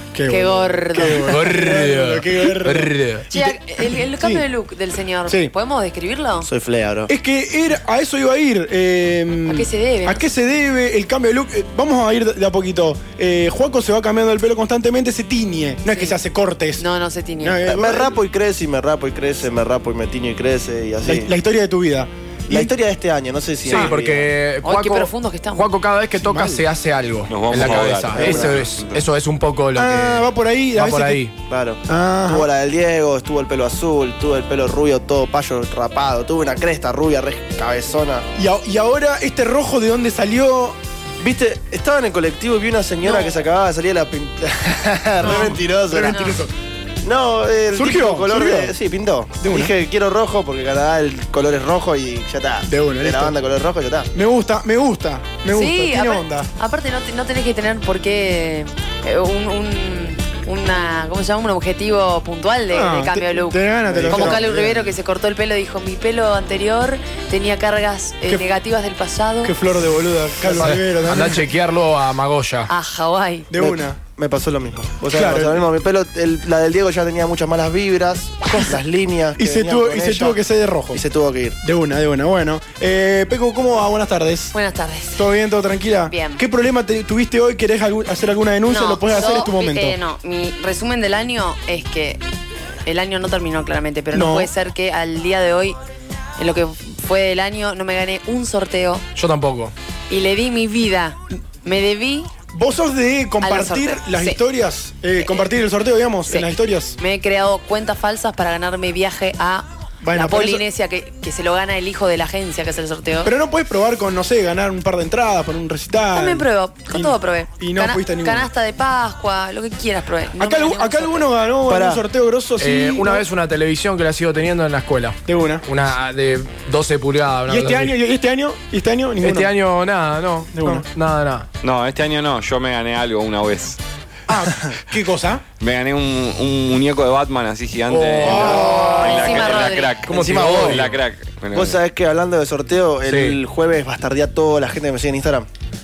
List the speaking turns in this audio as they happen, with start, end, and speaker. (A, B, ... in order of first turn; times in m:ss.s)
0:00.1-0:04.4 A
0:00.3-0:01.6 B
0:01.0-0:03.3 C
0:03.3-0:06.5 B
0:05.3-0:05.5 A
0:06.4-0:07.1 D
0:07.1-0:16.8 A
0:09.5-0:10.3 B
0:15.9-0:16.2 B
0:16.8-0:17.6 B
0:17.4-0:18.2 A
0:17.6-0:21.3 D
0:21.0-0:22.7 A
0:22.5-0:24.3 D
0:23.7-0:24.0 A
0:23.7-0:31.3 C
0:24.6-0:25.7 B
0:26.3-0:26.6 A
0:27.3-0:29.0 E
0:27.7-0:28.6 D
0:29.8-0:31.3 A
0:31.5-0:38.3 D
0:31.9-0:32.5 A
0:38.4-0:40.8 A
0:41.2-0:46.3 D
0:43.0-0:43.4 A
0:45.2-0:46.5 A
0:46.1-0:46.4 B
0:47.0-0:54.1 D
0:47.7-0:48.8 A
0:49.4-0:49.7 A
0:52.7-0:53.4 A
0:54.1-0:56.5 A
0:55.5-1:09.6 B
1:02.7-1:04.9 A
1:03.9-1:04.7 D
1:09.4-1:11.5 A
1:10.5-1:12.7 C
1:12.7-1:13.5 B
1:13.5-1:14.0 A
1:13.6-1:20.4 D
1:15.1-1:15.7 A
1:19.4-1:21.0 A
1:20.9-1:21.6 D
1:21.6-1:24.6 A
1:24.5-1:25.3 B
1:25.1-1:30.0 A
1:26.1-1:26.4 B
1:28.6-1:32.2 B
1:32.9-1:35.8 B
1:34.1-1:34.5 A
1:36.4-1:39.0 B
1:39.2-1:39.7 C
1:40.1-1:42.3 B
1:42.5-1:47.0 A
1:43.4-1:44.4 B
1:45.2-1:45.5 B
1:47.0-1:53.3 B
1:50.0-1:50.6 A
1:53.2-1:58.5 A
1:56.1-2:01.3 B
2:00.4-2:03.3 A
2:01.7-2:02.0 D
2:02.6-2:08.0 C
2:05.3-2:05.6 A
2:07.5-2:09.6 A
2:09.2-2:11.5 C
2:10.5-2:10.8 A
2:11.6-2:13.8 E
2:14.3-2:15.4 A
2:15.6-2:21.8 E
2:17.9-2:19.4 C
2:18.2-2:19.1 A
2:18.8-2:20.0 B
2:20.0-2:21.0 C
2:20.1-2:21.0 D
2:21.5-2:25.5 D
2:23.1-2:23.4 C